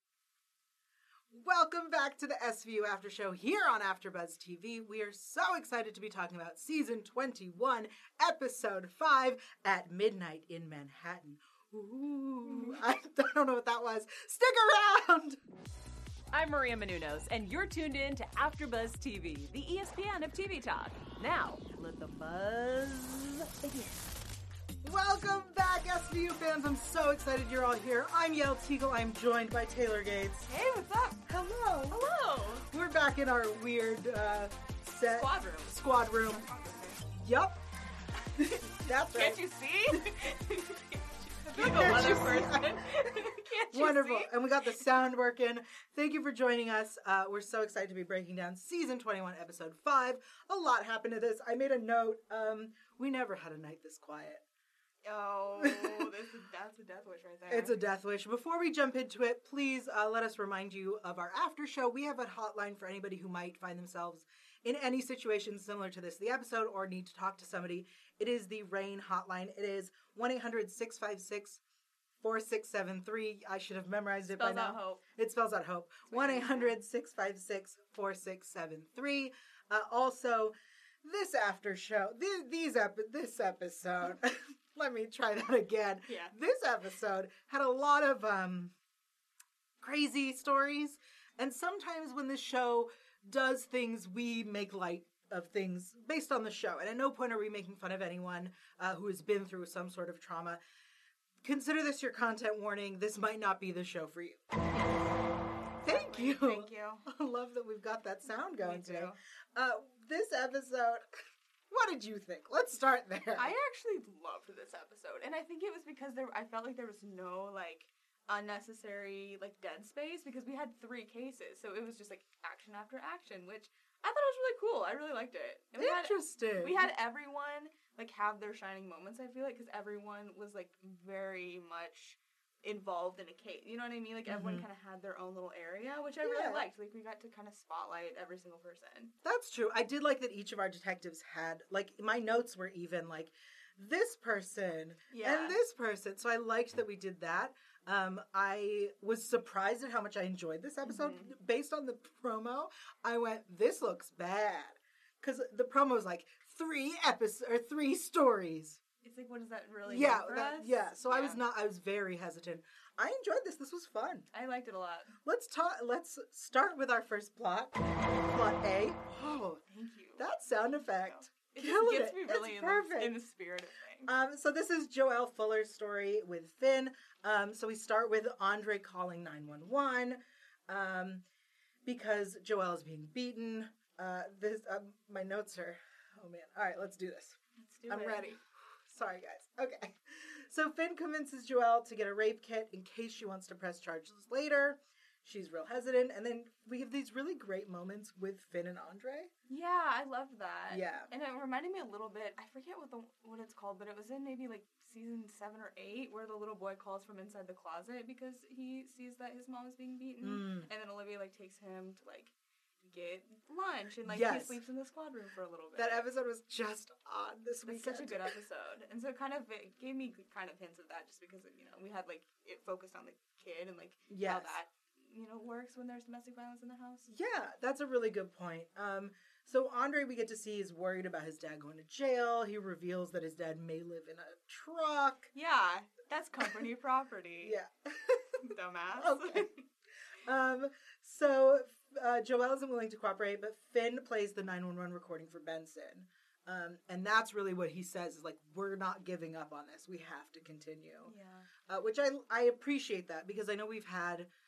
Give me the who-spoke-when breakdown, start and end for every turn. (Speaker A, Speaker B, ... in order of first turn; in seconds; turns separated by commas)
Speaker A: 1.3-15.4, Speaker B: 16.3-24.1, Speaker A: 24.8-30.5, Speaker C: 30.5-31.2, Speaker A: 31.2-32.1, Speaker C: 31.9-32.7, Speaker A: 32.7-36.5, Speaker C: 35.1-37.1, Speaker A: 37.1-37.6, Speaker A: 38.4-40.1, Speaker C: 39.1-44.3, Speaker A: 41.5-54.4, Speaker C: 55.0-57.8, Speaker A: 55.6-56.0, Speaker A: 57.5-71.6, Speaker A: 72.2-88.7, Speaker C: 74.3-75.0, Speaker C: 76.1-76.8, Speaker C: 86.1-86.3, Speaker A: 89.8-100.6, Speaker A: 101.4-104.4, Speaker C: 104.7-105.2, Speaker C: 105.8-107.0, Speaker A: 105.8-111.0, Speaker C: 108.6-109.2, Speaker A: 111.7-113.5, Speaker C: 113.3-139.1, Speaker A: 125.8-126.9, Speaker A: 134.3-134.6, Speaker A: 136.2-136.7, Speaker A: 139.2-158.8, Speaker C: 145.1-145.6, Speaker C: 150.8-151.3, Speaker C: 159.0-161.4, Speaker A: 159.8-164.3, Speaker C: 164.3-165.2, Speaker A: 165.2-169.6, Speaker C: 169.7-170.2, Speaker A: 170.2-173.2, Speaker C: 171.0-174.1, Speaker A: 174.1-181.2, Speaker A: 181.8-187.4, Speaker C: 187.6-188.4, Speaker A: 187.9-199.3, Speaker C: 199.5-212.3, Speaker A: 200.7-201.1, Speaker A: 210.2-210.7, Speaker C: 212.8-216.1, Speaker A: 214.1-214.6, Speaker A: 215.8-218.3, Speaker C: 217.7-227.1, Speaker A: 224.1-224.5, Speaker A: 227.1-235.3, Speaker C: 235.3-237.5, Speaker A: 237.4-239.5, Speaker C: 238.4-239.6, Speaker A: 240.2-251.1, Speaker C: 251.0-251.5, Speaker A: 251.7-254.3